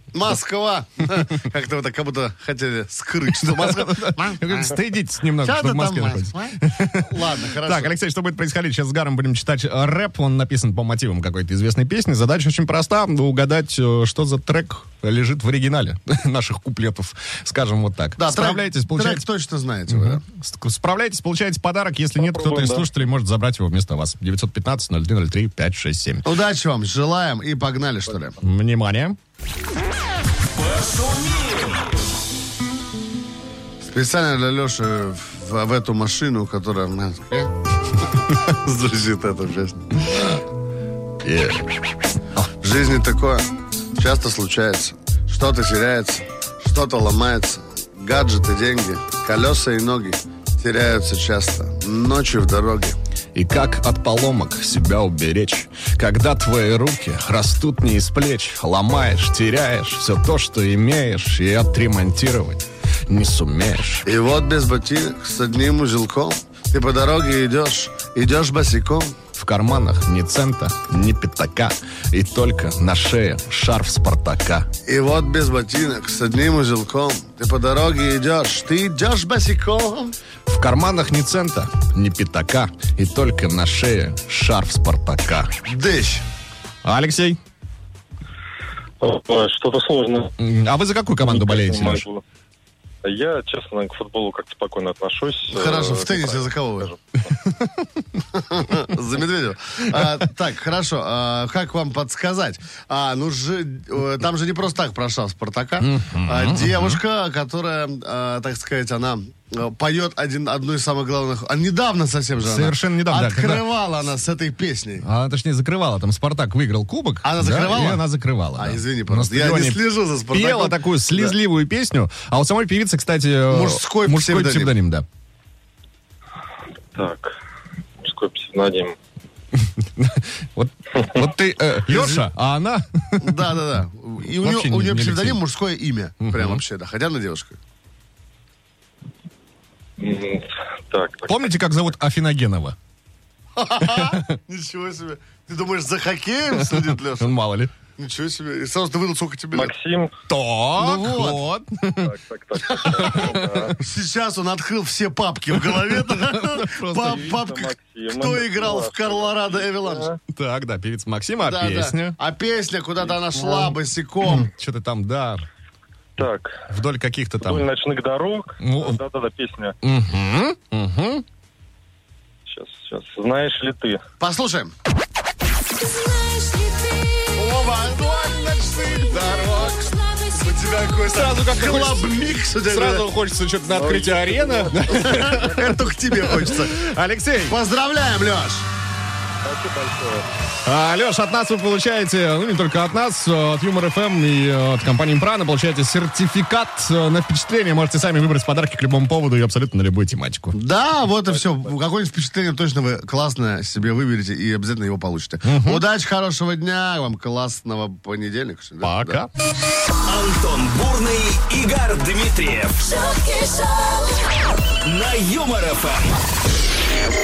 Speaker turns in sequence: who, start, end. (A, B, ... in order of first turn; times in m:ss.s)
0:00.1-0:04.8 A
0:03.3-0:19.2 B
0:05.4-0:07.9 A
0:18.2-0:20.2 A
0:19.9-0:26.3 B
0:22.2-0:22.9 C
0:26.2-0:28.4 A
0:28.4-0:29.2 B
0:30.5-0:31.9 D
0:33.8-0:37.5 A
0:38.5-0:40.4 A
0:41.2-0:41.7 B
0:42.5-0:53.0 A
0:53.4-1:04.1 B
1:04.0-1:09.2 A
1:09.3-1:14.7 B
1:14.9-1:20.2 A
1:20.5-1:25.5 B
1:25.7-1:26.2 A
1:26.8-1:27.4 B
1:29.0-1:30.4 C
1:30.4-1:32.0 B
1:31.2-1:32.2 C
1:33.0-1:37.0 C
1:35.5-1:36.9 A
1:37.4-1:38.0 B
1:38.3-1:55.1 A
1:45.8-1:47.0 B
1:52.4-1:53.6 B
1:55.0-1:59.8 B
1:57.2-2:01.4 A
2:00.3-2:05.0 B
2:03.5-2:04.8 A
2:07.0-2:07.3 C
2:08.0-2:09.0 C
2:09.6-2:13.5 B
2:11.9-2:12.3 A
2:13.2-2:17.6 A
2:14.4-2:15.4 B
2:16.2-2:16.6 B
2:20.0-2:21.6 C
2:21.3-2:22.8 B
2:23.6-2:27.4 A
2:23.8-2:24.3 B
2:26.7-2:27.7 B
2:28.0-2:29.8 A
2:29.5-2:30.1 C
2:30.3-2:32.1 B
2:30.8-2:31.4 A
2:32.0-2:33.8 C
2:32.6-2:40.1 A
2:33.0-2:33.8 B
2:35.6-2:37.3 B
2:37.0-2:40.2 C
2:40.3-2:42.2 B
2:41.4-2:44.5 A
2:44.4-2:45.4 B
2:46.2-2:46.6 C
2:46.7-2:47.7 B
2:47.4-2:49.8 C
2:48.6-2:49.0 B
2:49.8-2:51.2 B
2:52.5-2:54.0 C
2:54.2-2:54.7 A
2:55.8-2:57.5 E
2:57.4-2:58.4 A
2:57.6-2:59.9 B
2:59.2-3:01.0 E
3:00.3-3:03.1 A
3:01.0-3:07.6 B
3:03.7-3:05.8 C
3:04.8-3:06.8 A
3:07.5-3:08.7 A
3:09.4-3:10.3 C
3:10.6-3:20.6 B
3:20.5-3:29.2 A
3:25.4-3:25.8 B
3:28.8-3:29.3 B
3:30.0-3:32.9 D
3:32.8-3:34.3 E
3:34.8-3:36.2 D